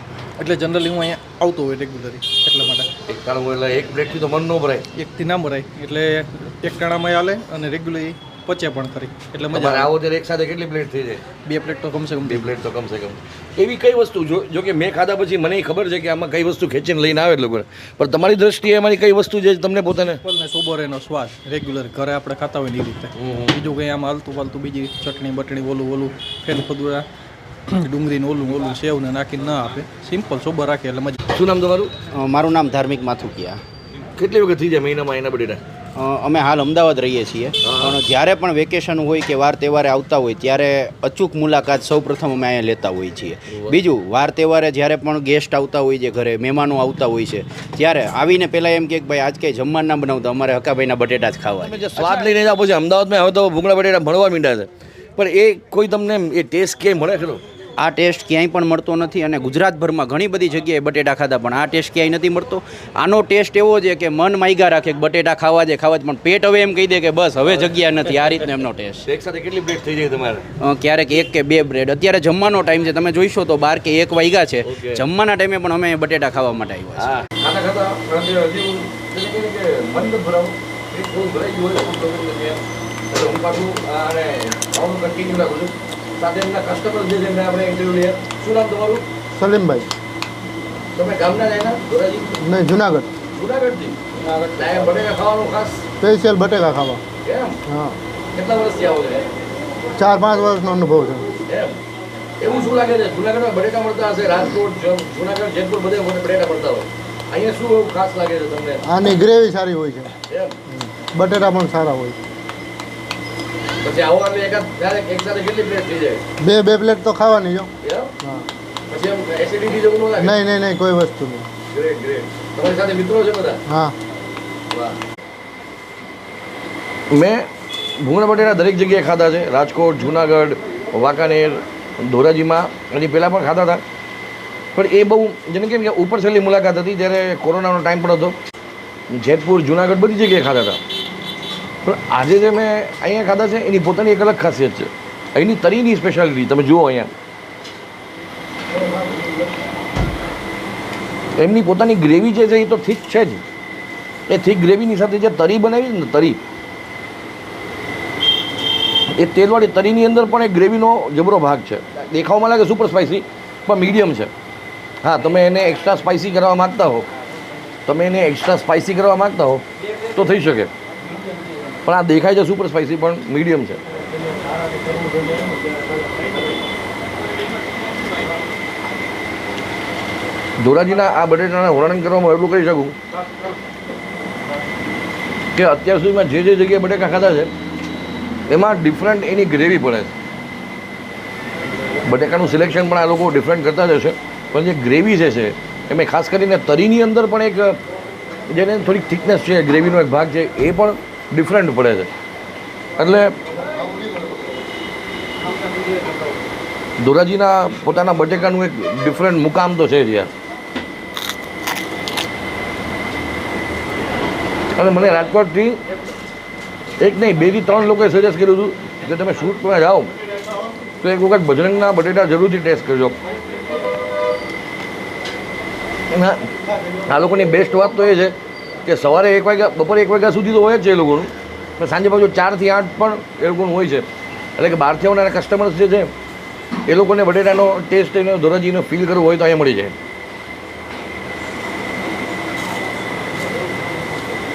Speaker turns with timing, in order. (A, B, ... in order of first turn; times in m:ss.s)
0:00.4-0:02.9 A
0:03.1-0:04.9 B
0:05.0-0:09.9 A
0:09.5-0:11.2 B
0:11.5-0:12.5 A
0:12.2-0:20.2 B
0:20.2-0:27.0 A
0:23.2-0:23.5 B
0:27.7-0:31.2 A
0:31.3-0:31.9 B
0:32.1-0:33.6 C
0:34.2-0:35.6 B
0:36.0-0:52.2 C
0:37.6-0:38.0 B
0:51.6-0:57.4 B
0:57.8-1:09.0 C
1:08.1-1:08.4 B
1:09.1-1:10.4 B
1:10.6-1:17.1 C
1:14.7-1:15.0 B
1:17.0-1:29.0 B
1:29.4-1:29.9 D
1:31.0-1:32.4 B
1:32.4-1:33.1 D
1:33.4-1:35.8 B
1:36.0-1:37.0 D
1:37.2-1:37.6 B
1:37.7-1:38.0 D
1:38.3-1:39.3 B
1:40.0-1:41.3 D
1:41.5-1:41.8 B
1:42.4-1:48.8 B
1:48.9-1:50.1 D
1:50.3-1:50.6 B
1:50.8-1:52.2 D
1:53.8-1:56.2 B
1:56.4-1:57.7 D
1:57.8-1:58.1 B
1:58.9-2:00.4 B
2:00.2-2:01.5 D
2:01.7-2:03.6 B
2:03.7-2:04.0 D
2:04.7-2:05.0 B
2:07.1-2:07.5 B
2:08.0-2:13.8 B
2:14.8-2:18.4 B
2:19.1-2:20.8 B
2:21.8-2:27.1 B
2:31.4-2:33.4 B
2:34.3-2:36.4 B
2:39.2-2:44.3 B
2:45.0-2:47.1 B
2:47.9-2:50.7 B
2:51.8-2:53.8 B
3:00.6-3:03.0 B
3:05.6-3:07.5 B
3:08.5-3:10.1 B
3:12.0-3:17.8 B
3:18.5-3:22.1 B
3:23.0-3:23.4 B
3:27.0-3:30.3 B
3:34.7-3:35.8 B
3:37.0-3:40.1 B
3:41.0-3:43.2 B
3:46.1-3:46.4 B
3:47.1-3:54.1 B
3:54.6-3:56.1 B
3:56.9-4:00.0 B